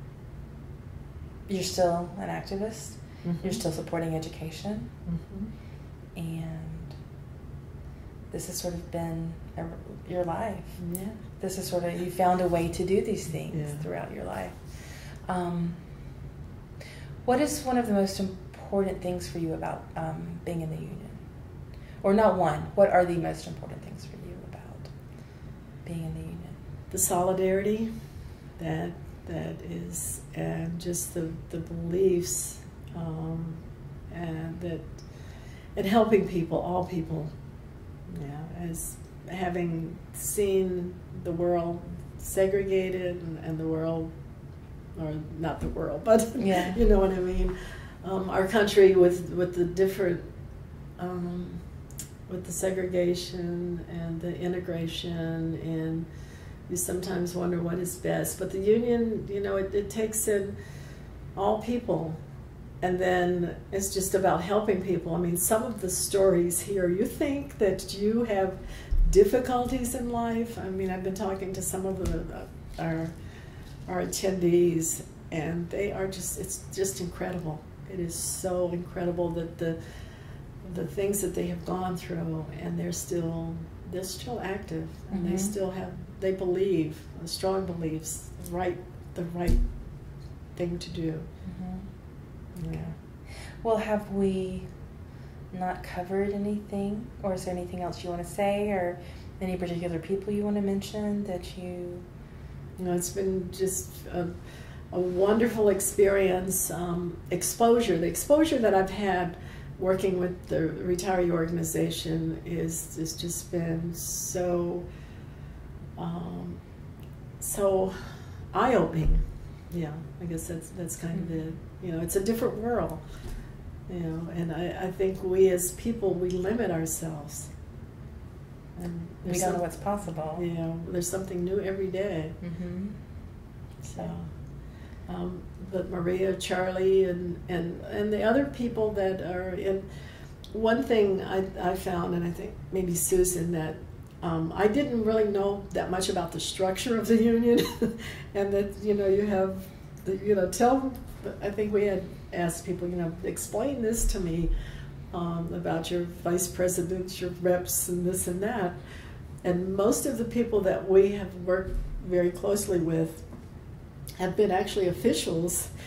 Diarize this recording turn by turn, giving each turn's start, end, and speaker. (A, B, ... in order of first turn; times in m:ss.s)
0:01.5-0:04.9 A
0:03.2-0:03.6 B
0:05.0-0:05.5 B
0:06.1-0:06.9 A
0:08.3-0:10.8 A
0:10.8-0:11.2 B
0:11.4-0:15.9 A
0:13.5-0:13.9 B
0:17.2-0:21.2 A
0:22.0-0:24.9 A
0:25.8-0:26.6 A
0:26.9-0:27.9 B
0:28.6-0:35.0 B
0:35.7-0:37.3 B
0:38.1-0:44.1 B
0:45.0-0:50.3 B
0:46.4-0:46.8 A
0:51.0-0:51.6 B
0:52.3-0:56.1 B
0:56.7-1:00.6 B
1:01.3-1:02.2 B
1:02.8-1:13.1 B
1:13.9-1:20.0 B
1:20.6-1:29.6 B
1:25.1-1:25.5 A
1:30.5-1:31.3 B
1:31.4-1:31.9 A
1:32.6-1:33.0 B
1:33.6-1:34.6 A
1:35.5-1:42.0 A
1:42.8-1:44.3 B
1:44.9-1:54.8 B
1:56.0-1:56.6 B
1:57.4-2:03.0 B
2:03.9-2:07.5 B
2:08.8-2:12.4 B
2:09.2-2:10.4 A
2:12.4-2:13.0 A
2:13.8-2:14.3 B
2:15.0-2:19.8 B
2:20.5-2:34.5 B
2:35.1-2:38.8 B
2:39.4-2:43.2 B
2:44.2-2:45.7 B